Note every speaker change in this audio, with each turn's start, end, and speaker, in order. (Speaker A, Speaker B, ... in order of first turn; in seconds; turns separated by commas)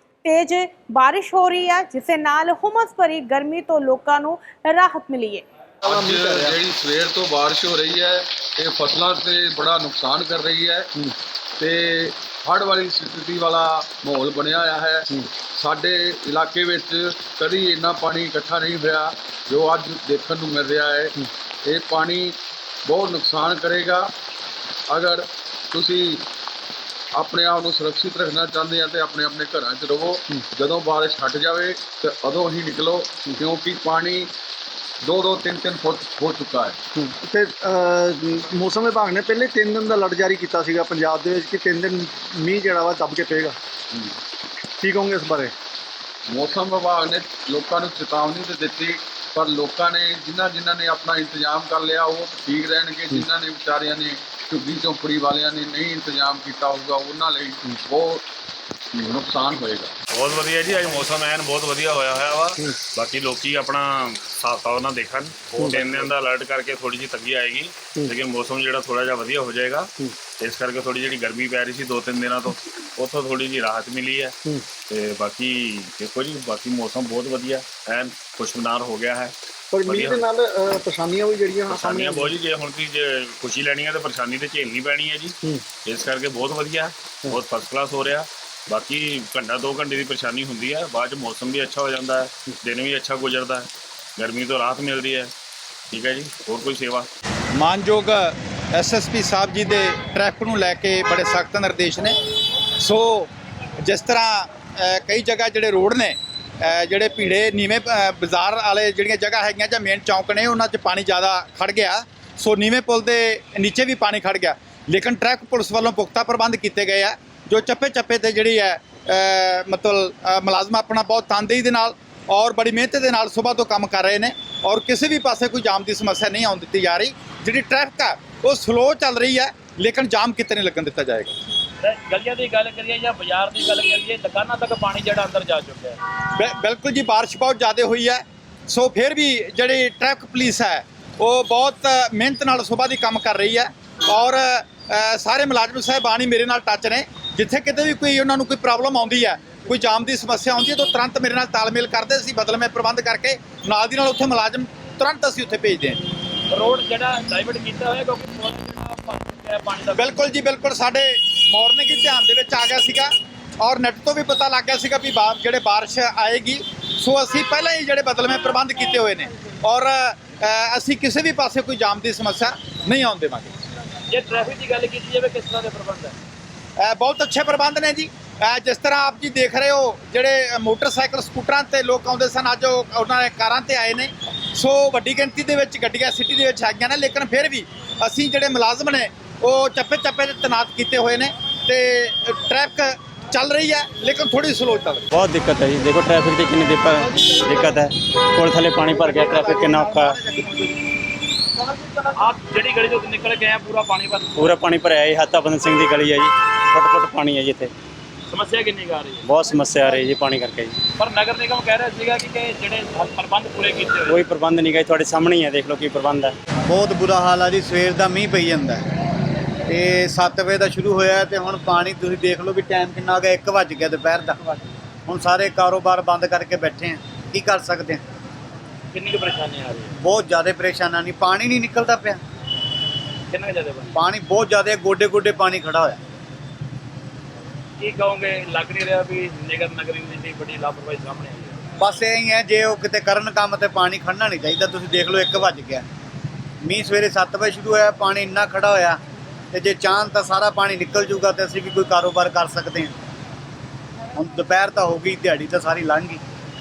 Speaker A: 0.2-5.5, Speaker B: 5.8-10.9, Speaker C: 5.9-6.5, Speaker B: 11.6-21.1, Speaker B: 21.7-24.1, Speaker B: 24.9-26.3, Speaker B: 27.2-34.3, Speaker B: 35.0-36.8, Speaker C: 37.0-43.6, Speaker C: 44.8-45.5, Speaker B: 46.3-58.2, Speaker B: 58.9-59.9, Speaker D: 60.1-74.4, Speaker B: 65.6-66.1, Speaker D: 74.9-80.2, Speaker C: 79.7-82.3, Speaker D: 81.7-95.3, Speaker D: 95.9-97.1, Speaker E: 97.5-102.2, Speaker E: 102.8-103.3, Speaker E: 103.8-131.3, Speaker F: 131.8-136.0, Speaker E: 136.4-156.0, Speaker F: 156.5-160.1, Speaker E: 159.9-173.5, Speaker F: 174.1-176.1, Speaker E: 176.8-195.1, Speaker G: 195.1-200.2, Speaker E: 198.9-200.8, Speaker F: 202.2-204.3, Speaker G: 204.4-207.7, Speaker F: 208.3-209.3, Speaker G: 209.2-210.8, Speaker F: 211.0-214.2, Speaker G: 214.1-216.3, Speaker H: 216.7-218.8, Speaker H: 219.7-228.0, Speaker F: 228.9-229.9, Speaker H: 230.0-232.2, Speaker F: 233.3-234.0, Speaker H: 233.9-236.0, Speaker F: 237.8-241.5, Speaker H: 241.8-245.8, Speaker H: 246.6-249.0, Speaker H: 249.5-252.9, Speaker H: 254.1-256.2